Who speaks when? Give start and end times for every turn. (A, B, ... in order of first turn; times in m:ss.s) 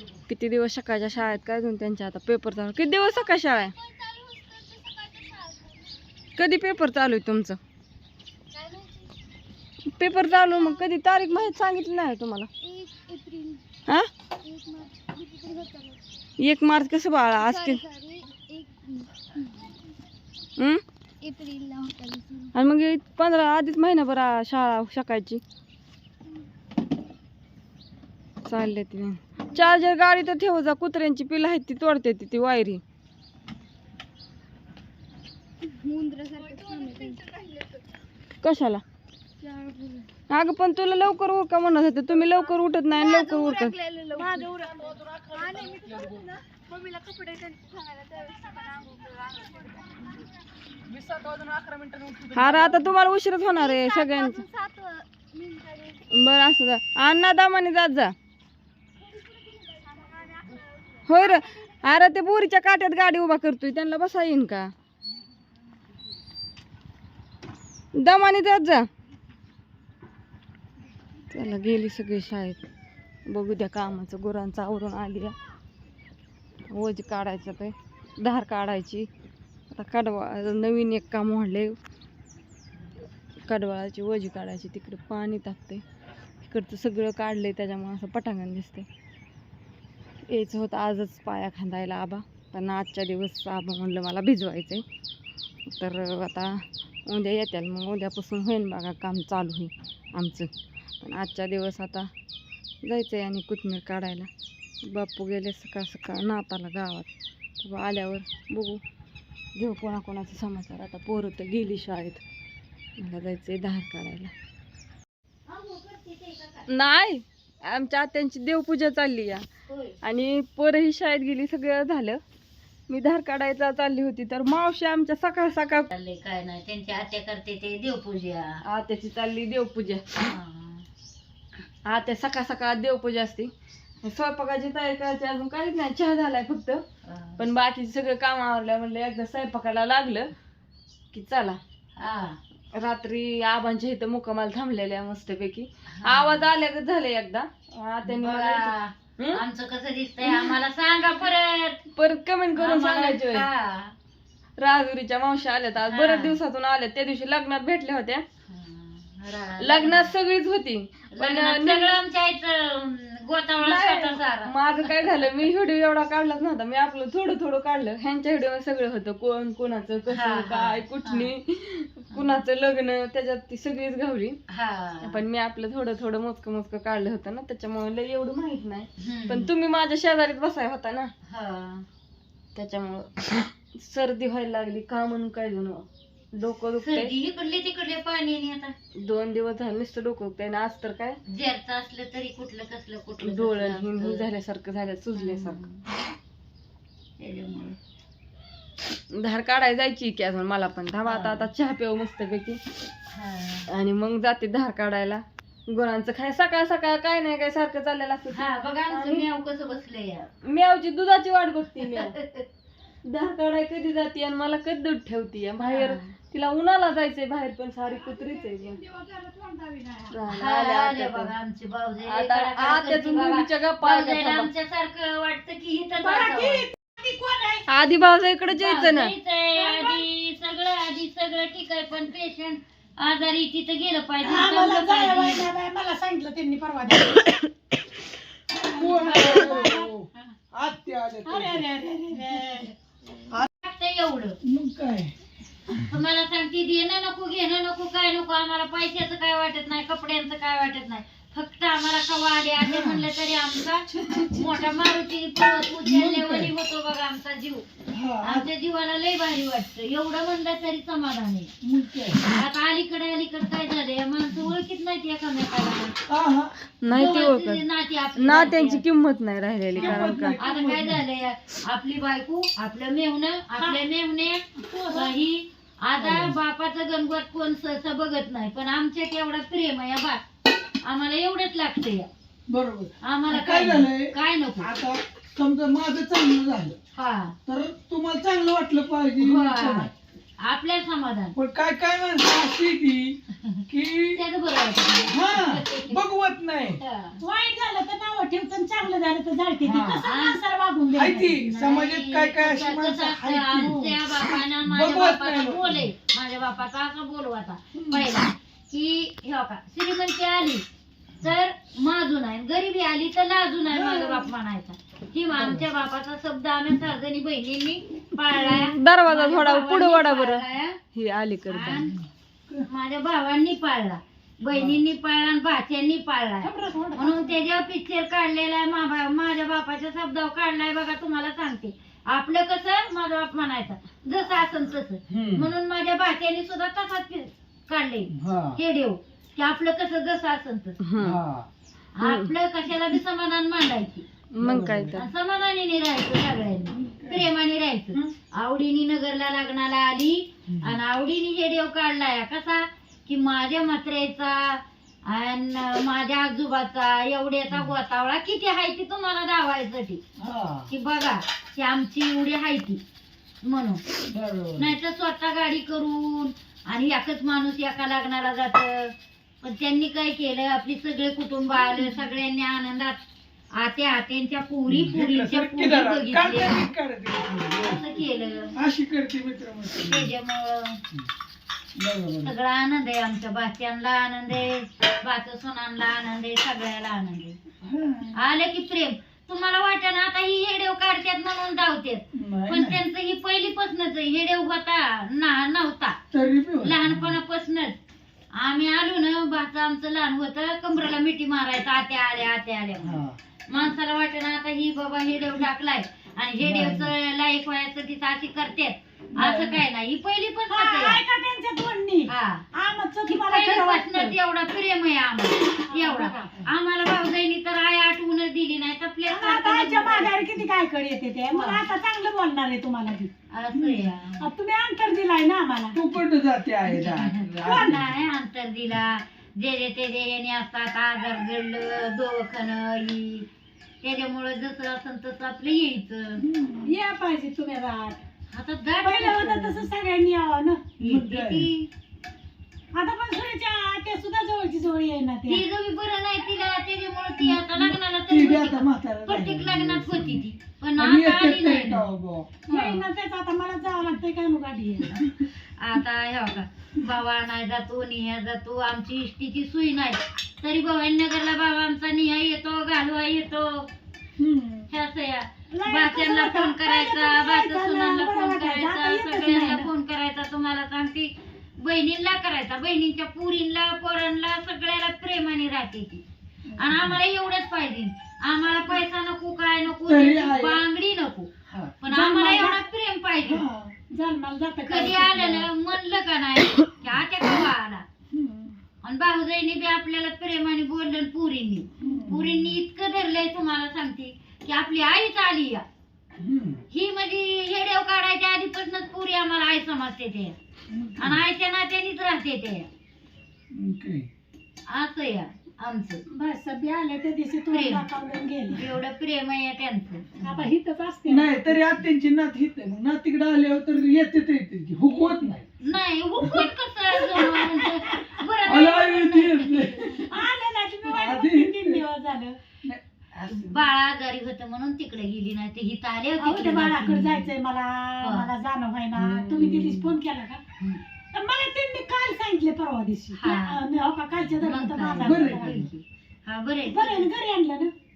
0:00.3-0:03.7 A
0:02.8-0:05.9 B
0:06.4-0:07.6 A
0:08.5-0:09.0 B
0:10.0-0:12.5 A
0:10.3-0:11.4 B
0:12.6-0:13.6 B
0:14.4-0:16.0 B
0:16.4-0:17.8 A
0:17.3-0:19.7 B
0:20.6-0:20.8 A
0:21.2-0:22.5 B
0:22.5-0:25.4 A
0:28.4-0:32.8 A
0:35.7-0:37.8 B
0:38.4-0:38.8 A
0:39.4-0:40.1 B
0:40.3-0:43.8 A
0:42.1-0:50.4 B
0:44.2-0:44.7 C
0:45.1-0:46.1 D
0:50.9-0:52.6 D
0:51.4-0:51.7 B
0:52.3-0:54.4 A
0:52.4-0:56.1 B
0:56.1-0:58.1 A
0:59.0-1:02.0 B
1:01.1-1:04.7 A
1:08.0-1:08.9 A
1:11.3-1:12.6 A
1:13.3-1:15.3 A
1:16.7-1:19.1 A
1:19.7-1:21.8 A
1:23.5-1:25.8 A
1:26.4-1:28.9 A
1:30.3-1:34.8 A
1:35.7-1:36.5 A
1:37.0-1:40.5 A
1:41.0-1:42.1 A
1:42.8-1:44.3 A
1:44.9-1:47.0 A
1:47.6-1:48.8 A
1:49.6-1:52.2 A
1:53.0-1:54.3 A
1:55.5-1:56.7 E
1:56.7-1:59.4 A
1:59.7-2:00.0 E
2:00.0-2:02.2 A
2:02.9-2:05.9 A
2:05.9-2:08.6 E
2:08.6-2:10.0 A
2:10.2-2:10.8 E
2:11.8-2:13.5 A
2:14.0-2:16.8 A
2:17.0-2:17.4 E
2:17.4-2:20.3 A
2:21.1-2:21.6 A
2:22.0-2:22.4 E
2:22.7-2:29.4 A
2:25.9-2:26.5 E
2:28.0-2:31.8 E
2:30.2-2:30.6 A
2:31.9-2:33.4 A
2:32.5-2:33.9 E
2:34.6-2:38.2 A
2:35.8-2:36.4 E
2:38.4-2:40.1 E
2:39.6-2:42.0 A
2:41.1-2:45.2 E
2:43.6-2:54.4 A
2:50.1-2:51.3 E
2:52.1-2:52.4 E
2:54.5-2:55.2 E
2:55.0-3:01.1 A
2:59.0-2:59.5 E
3:01.3-3:01.8 E
3:02.5-3:07.1 A
3:06.8-3:08.7 E
3:09.0-3:11.2 A
3:11.2-3:14.3 E
3:13.2-3:15.6 A
3:15.1-3:15.8 E
3:17.2-3:17.8 E
3:19.1-3:22.6 A
3:21.0-3:21.5 E
3:23.1-3:23.7 E
3:23.7-3:29.2 A
3:28.3-3:30.3 E
3:30.5-3:32.1 A
3:31.8-3:32.4 E
3:33.0-3:38.8 A
3:35.6-3:36.1 E
3:39.2-3:40.1 C
3:40.1-3:41.3 A
3:40.3-3:46.7 E
3:42.0-3:44.5 A
3:46.0-3:47.6 C
3:47.7-3:49.1 A
3:48.5-3:55.5 E
3:49.6-3:50.0 C
3:54.2-3:57.3 C
3:58.6-4:01.7 D
3:58.6-3:59.8 C
3:58.8-4:00.3 E
4:01.2-4:02.7 C
4:03.6-4:04.4 E
4:04.4-4:05.1 D
4:05.8-4:17.6 E
4:12.6-4:13.1 D
4:13.9-4:14.6 D
4:15.8-4:16.5 D
4:17.9-4:18.5 D
4:18.2-4:21.5 E
4:21.6-4:22.2 D
4:22.2-4:25.9 E
4:26.1-4:26.5 D
4:26.8-4:27.6 A
4:26.9-4:28.8 E
4:28.2-4:30.4 A
4:29.8-4:31.0 D
4:29.8-4:40.2 E
4:34.6-4:35.1 C
4:36.0-4:36.4 D
4:40.8-4:42.1 E
4:42.5-4:46.8 D
4:43.0-4:44.7 E
4:46.9-4:47.3 E
4:47.4-4:49.9 D
4:49.2-4:51.3 E
4:51.3-4:54.2 D
4:53.4-4:56.0 E
4:55.1-4:56.8 D
4:56.8-4:57.2 E
4:57.2-5:01.4 C
4:59.6-5:00.0 D
5:00.0-5:00.4 E
5:00.9-5:05.9 D
5:01.4-5:10.6 E
5:03.7-5:04.0 C
5:07.7-5:08.1 D
5:11.2-5:20.8 E
5:13.7-5:14.3 D
5:15.3-5:15.6 D
5:18.5-5:21.9 A
5:21.5-5:21.9 E
5:21.9-5:22.7 D
5:22.6-5:40.8 E
5:24.5-5:24.8 D
5:26.4-5:27.3 C
5:35.1-5:35.5 D
5:38.1-5:38.6 D
5:40.8-5:41.2 A
5:41.0-5:41.5 D
5:41.9-5:44.0 E
5:42.0-5:42.3 A
5:44.3-5:45.0 A
5:44.4-5:45.0 D
5:44.9-6:00.0 E
5:46.7-5:47.3 D
5:50.5-5:50.8 D
6:00.2-6:00.7 D
6:00.7-6:02.8 E
6:03.4-6:03.8 E
6:04.1-6:04.8 D
6:04.6-6:08.9 E
6:09.4-6:13.0 E
6:13.6-6:16.6 E
6:14.7-6:18.0 D
6:17.6-6:18.5 E
6:18.5-6:20.1 D
6:19.8-6:20.8 E
6:21.8-6:22.3 D
6:22.2-6:27.4 E
6:27.6-6:28.2 D
6:28.1-6:36.0 E
6:32.1-6:32.8 D
6:36.1-6:37.2 D
6:36.6-6:37.8 E
6:38.3-6:51.0 E
6:42.8-6:43.2 D
6:46.4-6:46.9 D
6:49.1-6:49.6 D
6:50.5-6:54.1 C
6:52.1-6:52.4 E
6:53.1-7:00.2 E
6:55.7-6:56.3 C
6:59.1-7:03.1 C
7:01.3-7:01.6 E
7:03.3-7:04.3 E
7:03.5-7:03.9 D
7:04.2-7:05.8 C
7:05.7-7:08.0 D
7:06.6-7:13.3 E
7:07.4-7:07.7 C
7:13.8-7:16.2 E
7:16.2-7:16.8 D
7:16.6-7:18.0 C
7:18.3-7:19.7 E
7:18.8-7:20.7 C
7:20.8-7:21.7 E
7:20.8-7:21.5 D
7:22.7-7:25.4 C
7:25.3-7:31.9 E
7:27.2-7:32.4 D
7:32.5-7:32.8 E
7:32.5-7:34.9 C
7:34.9-7:43.7 E
7:44.2-7:44.7 D
7:44.7-7:56.0 E
7:45.5-7:49.7 C
7:56.5-7:57.0 D
7:56.6-8:01.3 E
7:59.8-8:00.6 D
8:01.5-8:01.8 D
8:01.8-8:03.4 E
8:01.9-8:02.6 C
8:03.2-8:03.7 D
8:03.9-8:05.4 C
8:04.7-8:07.8 E
8:08.1-8:08.6 D
8:08.8-8:15.6 E
8:11.8-8:12.5 D
8:16.2-8:16.6 D
8:16.7-8:20.3 E
8:20.7-8:21.2 D
8:21.0-8:22.7 E
8:23.5-8:24.1 D
8:24.7-8:26.0 E
8:26.1-8:28.6 C
8:27.5-8:27.8 E
8:28.5-8:30.0 E
8:30.2-8:31.6 C
8:30.2-8:30.5 D
8:31.1-8:35.5 D
8:35.6-8:40.0 E
8:36.2-8:36.5 D
8:37.1-8:40.1 D
8:40.0-8:42.4 C
8:40.9-8:41.8 D
8:42.6-8:43.6 D
8:43.3-8:47.3 E
8:46.2-8:50.4 C
8:48.0-8:48.3 E
8:49.0-8:50.0 D
8:51.1-8:55.6 C
8:53.2-8:53.6 E
8:54.4-8:57.1 E
8:55.0-8:55.7 D
8:56.6-8:57.7 C